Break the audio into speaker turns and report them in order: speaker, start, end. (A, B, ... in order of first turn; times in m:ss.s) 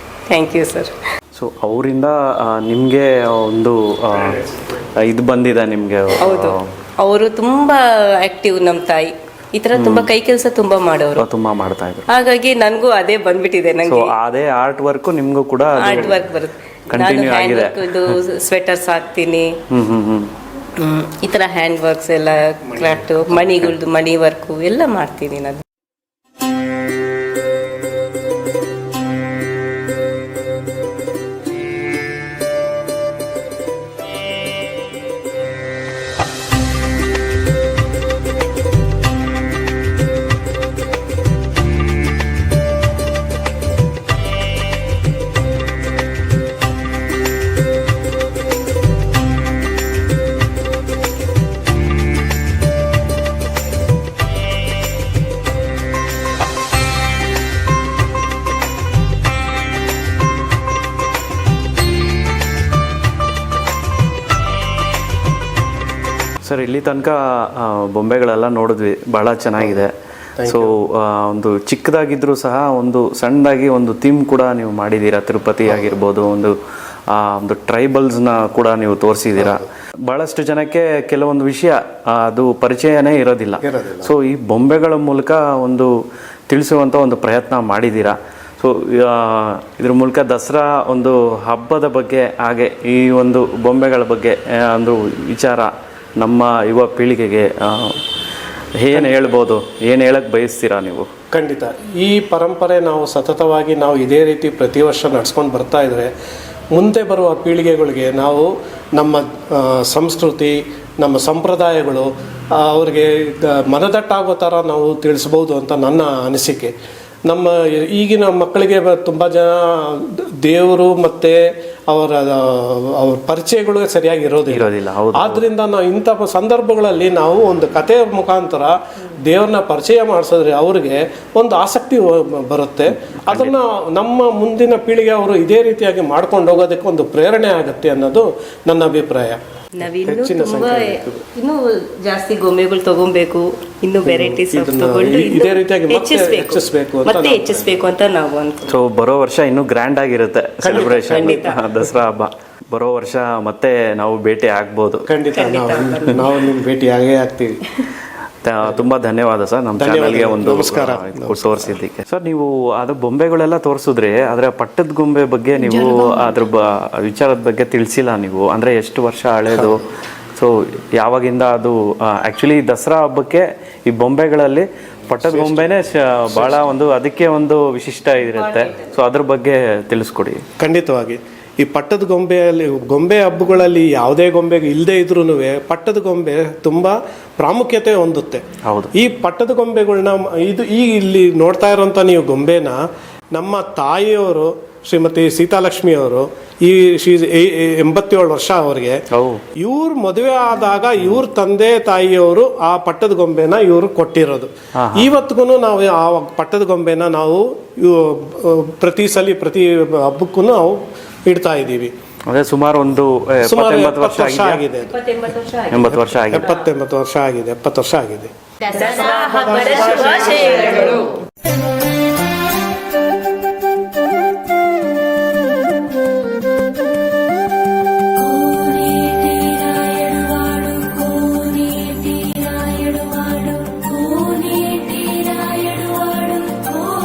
0:00.3-0:00.9 A
0:01.3-0:06.7 B
0:06.2-0:11.3 A
0:09.8-0:10.1 B
0:11.2-0:12.1 B
0:12.1-0:14.1 A
0:13.8-0:16.2 B
0:15.8-0:19.6 A
0:16.9-0:18.1 B
0:19.7-0:20.3 B
0:20.8-0:25.6 A
0:23.4-0:23.7 B
1:06.4-1:09.9 B
1:10.4-1:10.7 C
1:10.4-1:16.5 B
1:17.1-1:25.9 B
1:19.4-1:19.6 C
1:23.6-1:24.1 C
1:26.5-1:38.0 B
1:38.8-1:41.1 B
1:41.3-1:46.1 C
1:46.7-1:56.7 C
1:57.3-2:19.4 C
2:04.5-2:05.4 B
2:13.3-2:13.6 B
2:19.8-2:28.8 A
2:20.0-2:21.2 C
2:24.0-2:27.8 C
2:28.7-2:35.0 B
2:30.6-2:31.5 C
2:30.8-2:31.6 A
2:35.0-2:37.6 C
2:35.3-2:36.3 A
2:38.4-2:49.8 B
2:39.8-2:41.7 C
2:50.4-3:00.4 B
2:55.2-2:56.6 C
2:58.4-2:58.9 A
3:00.6-3:12.8 C
3:08.6-3:08.9 B
3:13.3-3:19.0 C
3:19.1-3:19.4 B
3:19.6-3:31.9 C
3:24.8-3:25.1 B
3:32.3-3:34.6 B
3:33.4-3:34.9 C
3:34.8-3:36.5 A
3:35.7-3:36.5 B
3:35.9-3:38.3 C
3:38.6-3:41.1 A
3:38.8-3:40.8 C
3:52.2-3:52.5 B
3:54.6-3:56.6 B